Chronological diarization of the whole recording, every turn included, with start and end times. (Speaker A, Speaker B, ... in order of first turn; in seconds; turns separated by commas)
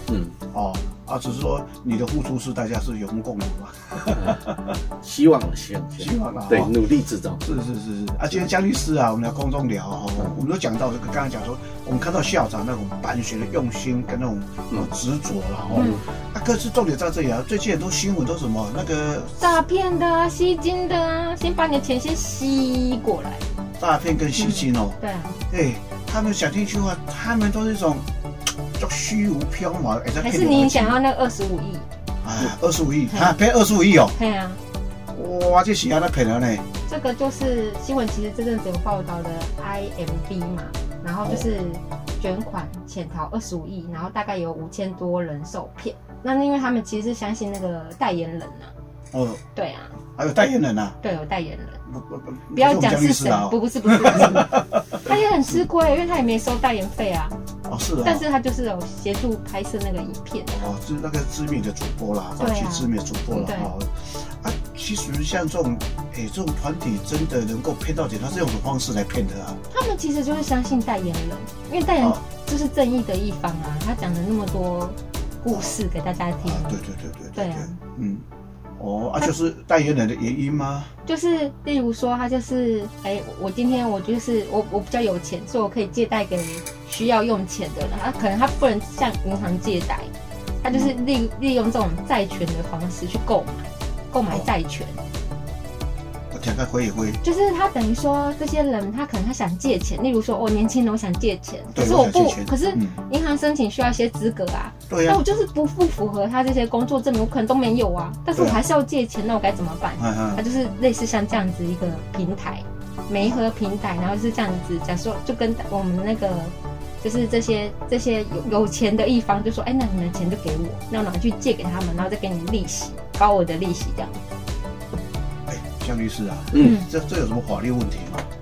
Speaker A: 0.1-0.4, Speaker B: 0.5-4.7, Speaker A: 4.1-4.4, Speaker A: 5.0-7.4, Speaker B: 6.0-6.8, Speaker B: 7.4-19.6, Speaker A: 15.7-16.0, Speaker C: 19.4-23.4, Speaker B: 23.8-25.0, Speaker C: 24.4-25.4, Speaker B: 25.5-28.1, Speaker B: 28.8-31.0, Speaker C: 30.2-31.9, Speaker B: 32.2-34.1, Speaker C: 33.1-33.4, Speaker C: 34.1-34.6, Speaker B: 35.1-36.6, Speaker C: 36.9-48.7, Speaker B: 49.1-49.4, Speaker C: 49.5-50.0, Speaker B: 50.1-51.0, Speaker C: 51.0-51.8, Speaker B: 51.9-55.0, Speaker C: 52.5-57.4, Speaker B: 57.7-58.3, Speaker C: 58.0-60.6, Speaker B: 60.5-69.6, Speaker C: 62.4-63.7, Speaker C: 69.7-76.8, Speaker B: 75.5-75.7, Speaker B: 76.4-78.2, Speaker C: 77.3-77.8, Speaker B: 78.8-80.9, Speaker C: 81.0-90.1, Speaker C: 90.6-95.0, Speaker B: 90.7-91.0, Speaker B: 96.3-97.2, Speaker C: 97.2-124.2, Speaker B: 101.7-103.0, Speaker B: 104.9-105.2, Speaker B: 108.3-108.6, Speaker B: 110.0-110.4, Speaker B: 125.5-128.3, Speaker A: 126.5-126.8, Speaker C: 126.6-126.8